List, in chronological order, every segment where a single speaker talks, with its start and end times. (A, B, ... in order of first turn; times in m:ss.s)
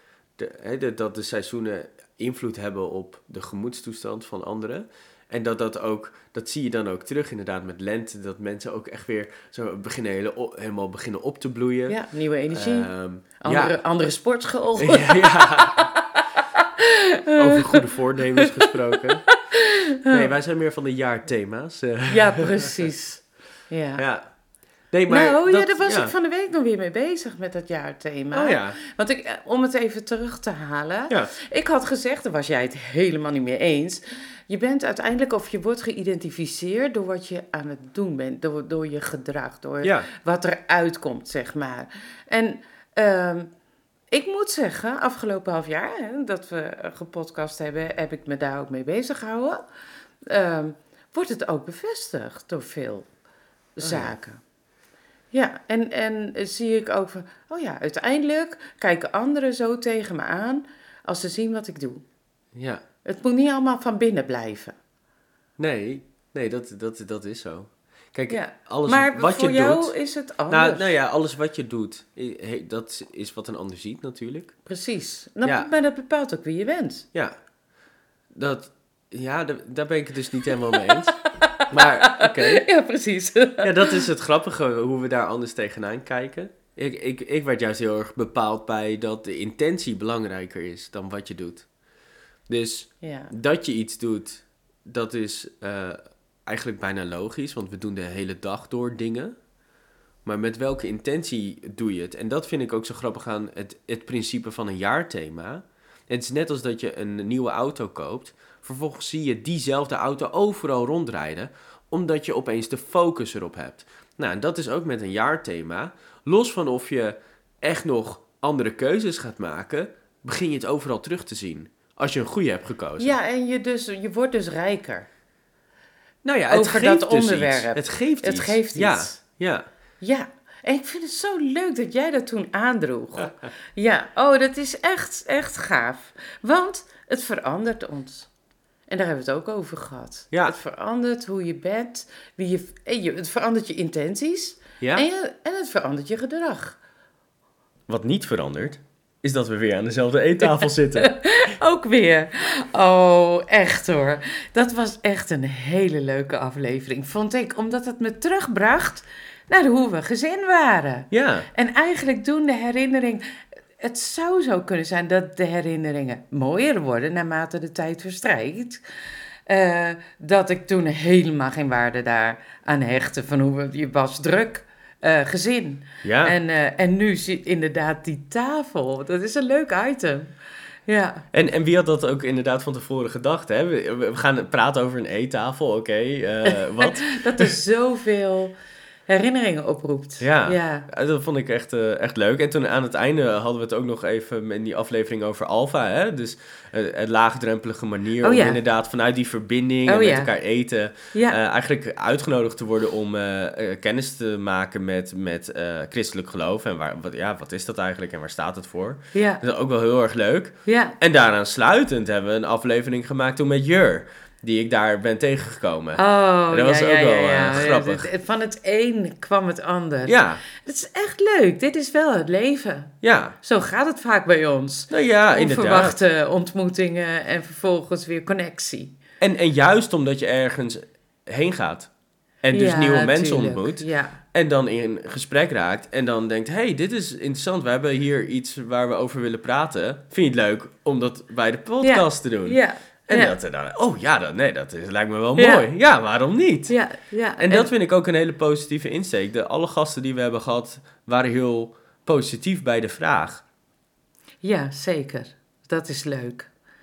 0:00.4-0:12.0 A
0:11.9-0:20.3 B
0:12.5-0:13.8 A
0:14.8-0:15.9 A
0:17.3-0:19.2 A
0:20.1-0:22.7 A
0:22.1-0:24.0 B
0:24.0-0:24.2 A
0:24.9-0:26.1 A
0:25.1-0:43.5 B
0:28.3-0:28.8 A
0:39.8-0:40.1 A
0:44.1-0:49.6 B
0:50.3-0:53.1 B
0:53.8-0:54.4 B
0:53.8-0:54.1 A
0:55.3-1:02.0 B
1:02.6-1:02.8 A
1:03.0-1:04.8 B
1:05.6-1:09.9 A
1:08.3-1:10.9 B
1:10.5-1:14.5 A
1:14.7-1:17.1 B
1:15.4-1:15.7 A
1:18.3-1:21.2 A
1:20.7-1:24.1 B
1:21.7-1:22.6 A
1:23.6-1:31.7 A
1:32.5-1:39.4 A
1:33.0-1:33.3 B
1:40.2-2:03.1 A
2:03.0-2:05.1 B
2:06.2-2:09.6 A
2:06.5-2:09.2 B
2:10.0-2:18.3 B
2:18.9-2:26.8 B
2:24.8-2:25.1 A
2:27.9-2:31.1 A
2:30.4-2:43.2 B
2:41.1-2:41.5 A
2:43.8-2:48.8 B
2:49.5-3:00.3 B
2:56.0-2:56.4 A
3:00.9-3:01.3 B
3:01.3-3:07.5 A
3:06.5-3:08.5 B
3:09.1-3:10.9 B
3:10.2-3:38.1 A
3:18.2-3:18.6 B
3:19.9-3:20.3 B
3:21.1-3:21.4 B
3:29.1-3:29.4 B
3:30.7-3:31.0 B
3:36.0-3:49.0 B
3:40.1-3:40.4 A
3:43.0-3:43.4 A
3:44.9-3:46.0 A
3:49.2-3:51.9 A
3:52.4-4:06.8 A
3:52.5-3:54.2 B
4:01.8-4:03.4 B
4:05.4-4:05.6 B
4:06.7-4:07.7 B
4:07.4-4:13.4 A
4:14.4-4:16.5 B